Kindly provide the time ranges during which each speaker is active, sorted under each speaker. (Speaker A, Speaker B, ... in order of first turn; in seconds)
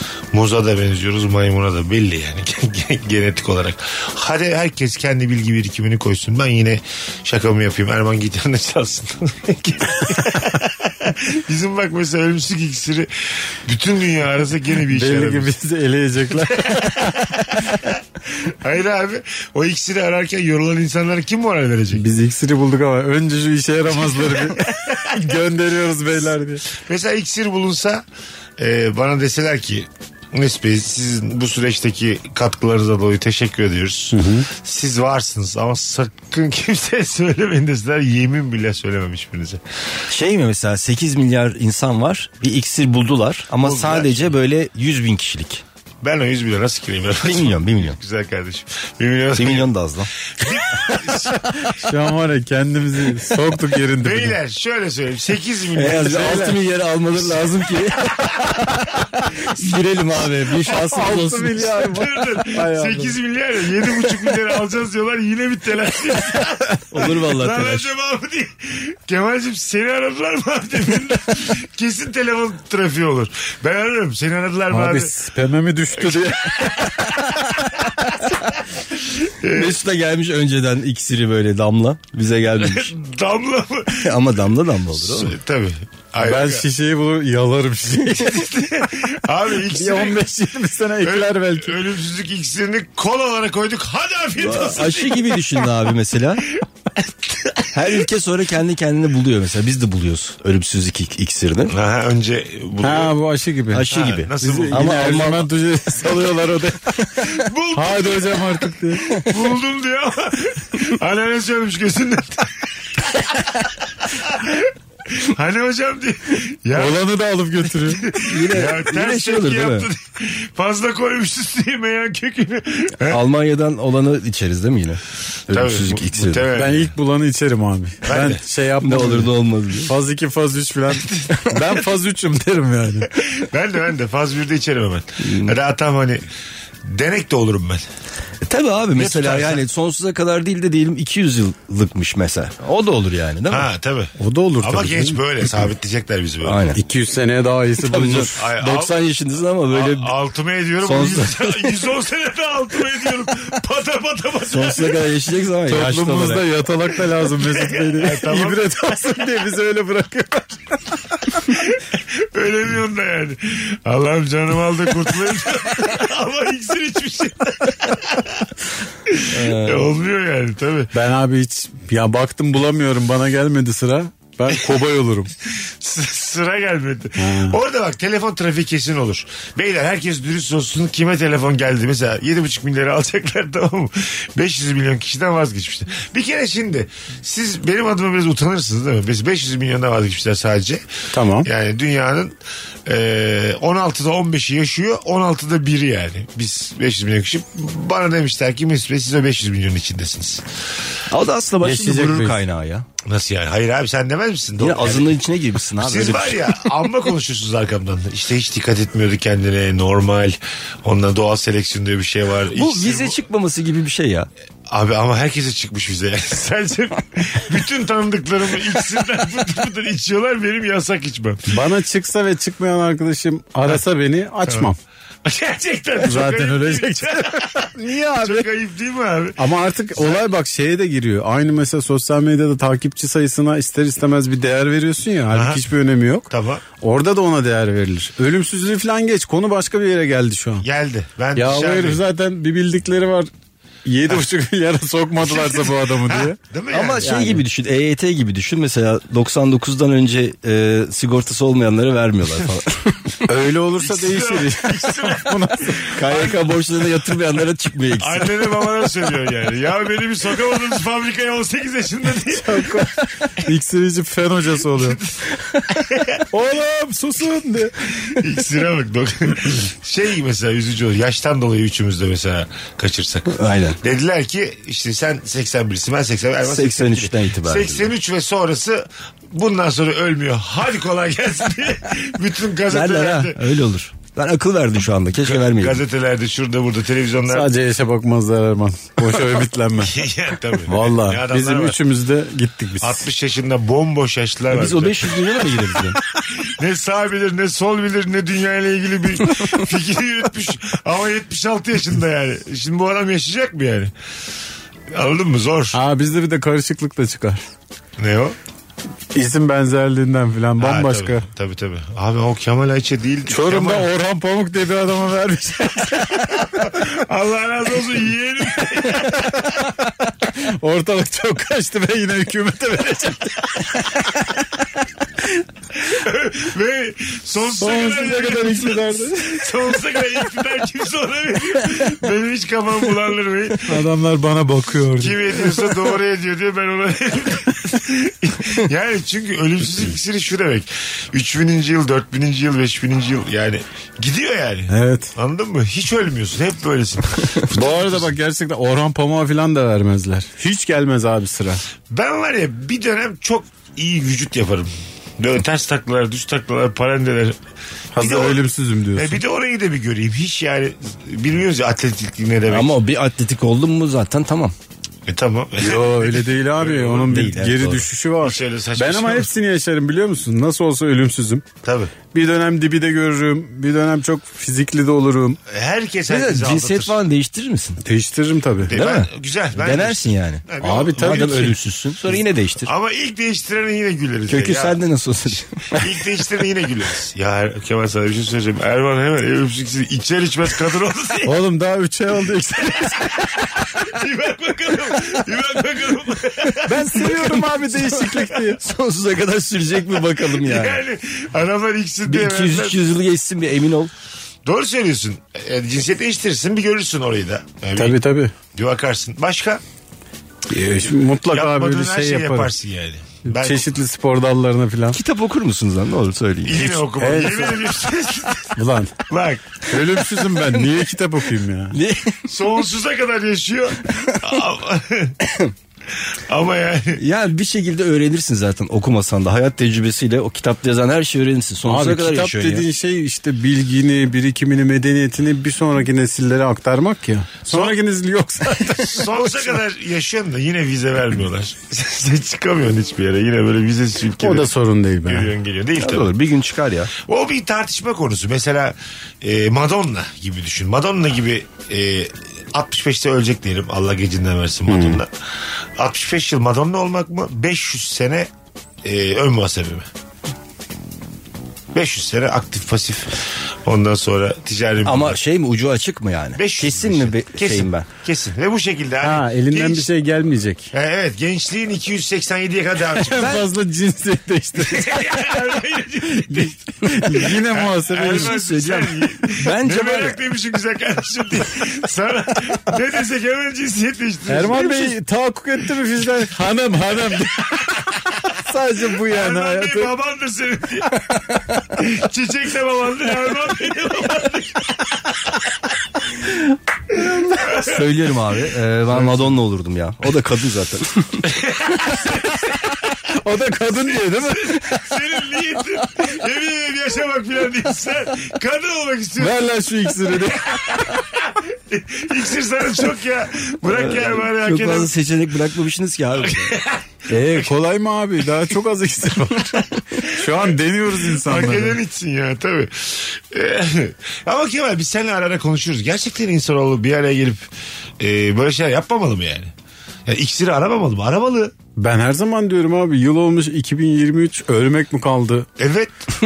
Speaker A: 0.3-15.5, 16.4-22.0, 24.0-25.4, 26.7-28.0, 28.6-39.6, 43.6-44.3, 46.0-49.7, 50.3-51.6, 54.0-56.5, 61.8-75.1, 76.0-78.1, 79.0-79.8, 82.6-84.2, 85.0-86.6, 88.2-90.2, 91.0-95.7, 96.6-97.8, 101.7-103.1, 103.9-105.3, 107.2-117.0, 117.8-123.2, 125.5-126.9, 128.0-128.4, 130.9-131.4, 133.1-136.2, 136.8-137.8, 138.9-139.6, 143.5-146.6, 148.3-149.0, 149.7-155.0, 157.4-158.6, 161.5-168.5, 169.1-170.9, 175.4-190.8, 191.4-200.4, 203.0-205.2, 205.8-213.2, 214.7-221.4, 224.4-224.7, 225.2-230.2, 235.3-235.6, 236.3-236.6, 240.6-242.0, 245.2-247.1, 253.8-256.7, 258.0-262.7, 264.7-265.2, 265.7-266.2, 268.0-283.4, 285.2-287.5, 289.8-291.8, 292.8-295.2, 296.4-303.9, 304.9-305.8, 308.0-308.4, 310.6-313.9, 316.4-319.5, 325.8-333.8, 335.0-348.1, 351.9-357.4, 358.0-358.4, 358.9-362.7, 365.1-367.1, 368.2-369.3, 371.6-371.9, 375.5-377.0, 378.6-381.5, 382.6-384.8, 385.7-391.4, 393.5-397.4, 399.9-402.8, 404.4-408.0, 408.5-409.6, 411.3-413.7, 416.4-418.5, 419.1-419.5, 422.3-425.1, 426.3-427.0, 437.5-437.7, 438.8-444.5, 445.1-446.1, 446.9-455.1, 455.8-458.3, 458.8-459.9, 461.7-465.2, 466.4-469.9, 470.7-473.4, 474.6-484.9, 489.0-495.3, 496.9-497.9, 498.9-499.3, 501.3-502.7, 503.8-509.4, 510.2-514.9, 516.2-517.5, 520.2-527.5, 528.0-529.5, 530.1-531.5, 535.6-536.1
Speaker B: 14.9-17.3, 21.9-26.6, 34.1-34.5, 51.8-54.4, 55.9-56.6, 58.2-58.6, 60.6-63.2, 74.7-77.8, 86.2-88.5, 89.6-91.8, 102.8-109.1, 116.7-118.1, 126.5-133.1, 144.2-145.2, 146.7-148.4, 155.7-161.4, 170.9-175.3, 177.2-177.6, 191.1-191.5, 201.6-202.4, 221.5-224.8, 226.0-228.5, 229.4-240.7, 241.3-243.3, 243.8-246.4, 247.0-247.4, 253.2-256.0, 262.3-265.0, 266.3-268.2, 287.3-290.0, 290.6-293.1, 305.7-307.4, 309.1-311.2, 313.3-316.7, 318.9-319.7, 320.2-324.4, 327.4-329.8, 333.7-335.9, 344.7-345.1, 347.5-351.6, 357.9-359.2, 365.6-371.4, 372.1-375.4, 377.8-378.7, 380.6-381.6, 391.2-393.4, 396.6-398.6, 407.8-408.3, 410.5-412.5, 413.2-415.0, 417.0-417.7, 418.6-418.9, 419.7-421.8, 431.6-439.6, 444.2-445.3, 454.7-455.0, 469.0-470.7, 472.9-475.4, 476.1-478.4, 484.3-489.9, 496.9-497.5, 503.1-504.8, 509.2-510.9, 517.1-521.8, 531.8-535.5
Speaker C: 40.1-45.6, 47.2-48.0, 49.4-50.1, 55.7-58.1, 59.4-61.8, 66.9-67.9, 79.5-82.9, 84.0-85.3, 94.4-96.5, 97.7-101.7, 103.7-105.5, 118.2-119.9, 123.1-126.5, 128.8-129.9, 135.2-135.5, 138.4-143.7, 146.4-146.8, 147.8-150.1, 150.8-151.8, 154.5-156.5, 169.3-169.9, 201.1-202.8, 204.6-206.7, 212.5-214.3, 246.7-253.2, 255.9-258.3, 273.3-273.8, 276.4-277.9, 282.7-285.8, 294.5-296.0, 362.5-364.5, 367.0-367.9, 376.1-377.8, 378.7-382.7, 384.3-385.9, 396.8-400.8, 402.1-403.9, 414.9-416.8, 421.7-422.2, 425.2-425.5, 427.0-432.6, 445.8-446.9, 464.8-467.9, 473.2-473.4, 478.0-480.2, 497.5-501.3, 513.7-516.5